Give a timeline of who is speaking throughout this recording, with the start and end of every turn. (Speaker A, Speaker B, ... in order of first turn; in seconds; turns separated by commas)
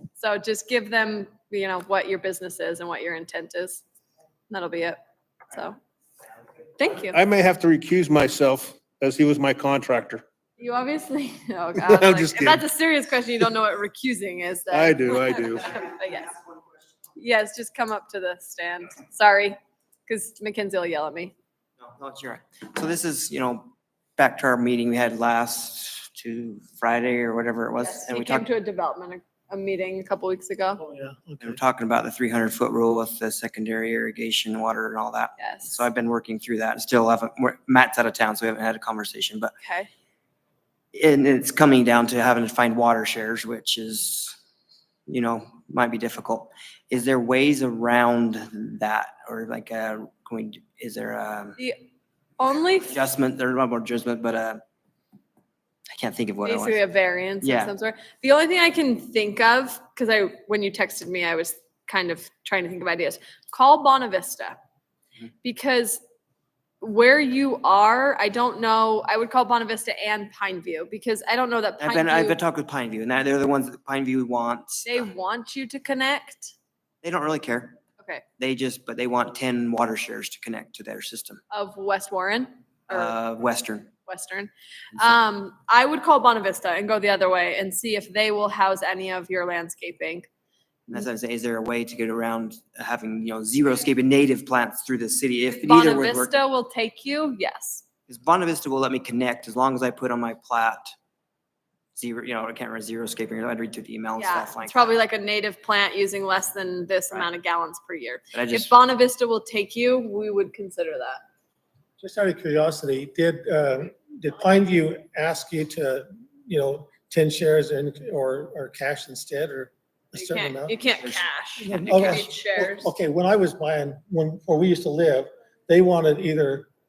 Speaker A: 0.2-3.8, Speaker A: 4.5-5.0, Speaker A: 5.5-5.8, Speaker A: 6.8-7.2, Speaker B: 7.1-10.2, Speaker A: 10.6-16.3, Speaker B: 11.8-12.6, Speaker B: 14.7-15.7, Speaker A: 17.2-21.3, Speaker C: 21.8-28.5, Speaker A: 27.8-30.8, Speaker D: 30.8-31.6, Speaker C: 31.4-39.5, Speaker A: 35.4-35.8, Speaker A: 39.6-39.9, Speaker C: 40.9-44.4, Speaker C: 45.1-51.6, Speaker A: 51.6-51.9, Speaker A: 52.4-52.9, Speaker C: 52.8-54.6, Speaker C: 55.9-56.8, Speaker A: 56.5-64.6, Speaker C: 57.4-57.7, Speaker A: 65.4-66.0, Speaker A: 66.8-72.4, Speaker C: 71.8-75.0, Speaker A: 74.8-76.5, Speaker C: 77.0-77.8, Speaker C: 78.4-81.4, Speaker A: 81.5-83.2, Speaker C: 82.9-83.9, Speaker A: 84.1-90.3, Speaker C: 90.9-96.4, Speaker A: 95.5-97.8, Speaker C: 98.1-100.9, Speaker C: 102.0-104.9, Speaker A: 104.2-111.2, Speaker C: 108.3-108.7, Speaker D: 112.0-120.8, Speaker A: 120.2-122.9, Speaker C: 121.0-122.3, Speaker D: 121.6-126.7